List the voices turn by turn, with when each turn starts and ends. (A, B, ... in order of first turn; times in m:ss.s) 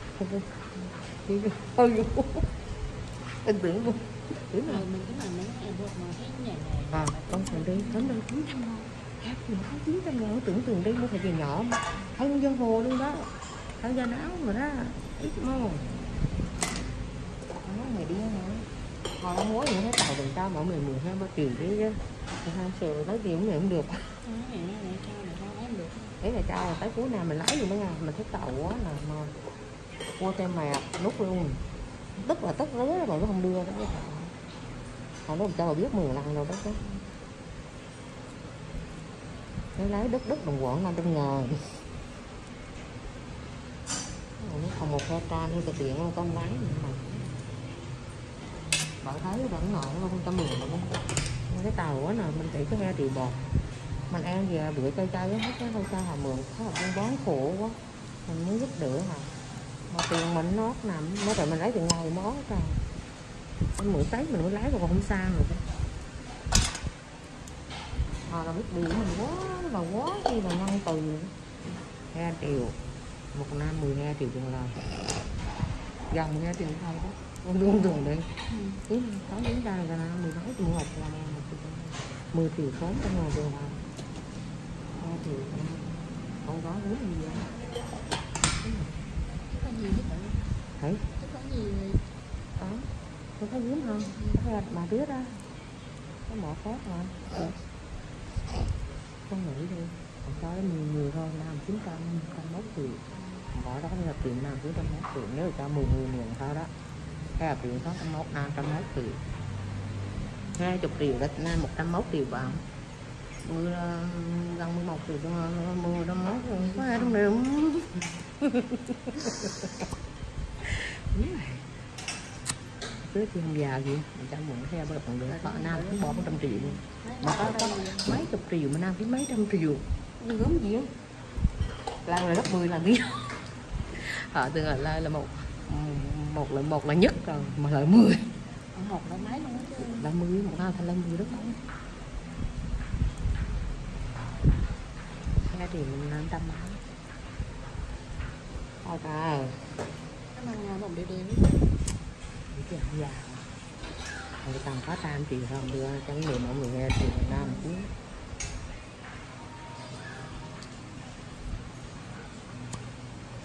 0:00.2-0:02.4 A
0:03.4-0:04.8 A
0:04.6-0:08.2 B
0:06.9-0:15.8 A
0:17.6-0:18.6 A
0:19.2-0:24.0 A
0:24.2-0:26.0 B
0:26.2-0:29.3 A
0:30.2-0:31.6 A
0:32.2-0:34.3 A
0:35.2-0:36.8 A
0:39.8-0:41.5 A
0:44.4-0:47.3 A
0:49.0-0:51.0 A
0:51.5-0:53.4 A
0:54.1-0:59.3 A
0:59.9-1:02.8 A
1:03.8-1:05.6 A
1:08.3-1:11.3 A
1:12.1-1:12.7 A
1:13.3-1:14.8 A
1:16.1-1:18.2 A
1:18.5-1:18.8 B
1:18.9-1:23.8 A
1:25.0-1:27.5 A
1:28.6-1:28.9 A
1:29.6-1:30.4 B
1:30.8-1:31.0 A
1:31.2-1:32.0 B
1:32.6-1:35.4 A
1:34.0-1:34.4 B
1:36.3-1:37.3 A
1:39.3-1:43.0 A
1:43.1-1:43.5 B
1:43.5-1:46.7 A
1:47.4-1:49.2 A
1:50.6-1:52.6 A
1:53.4-1:59.7 A
1:56.6-1:57.2 B
2:00.6-2:01.6 A
2:03.0-2:10.9 A
2:05.2-2:08.1 B
2:12.0-2:13.1 A
2:14.0-2:18.2 A
2:18.7-2:20.1 B
2:20.0-2:21.6 A
2:25.4-2:26.8 A
2:28.8-2:29.6 A
2:30.3-2:31.7 B
2:32.5-2:33.4 A
2:34.4-2:37.9 A
2:37.3-2:37.7 B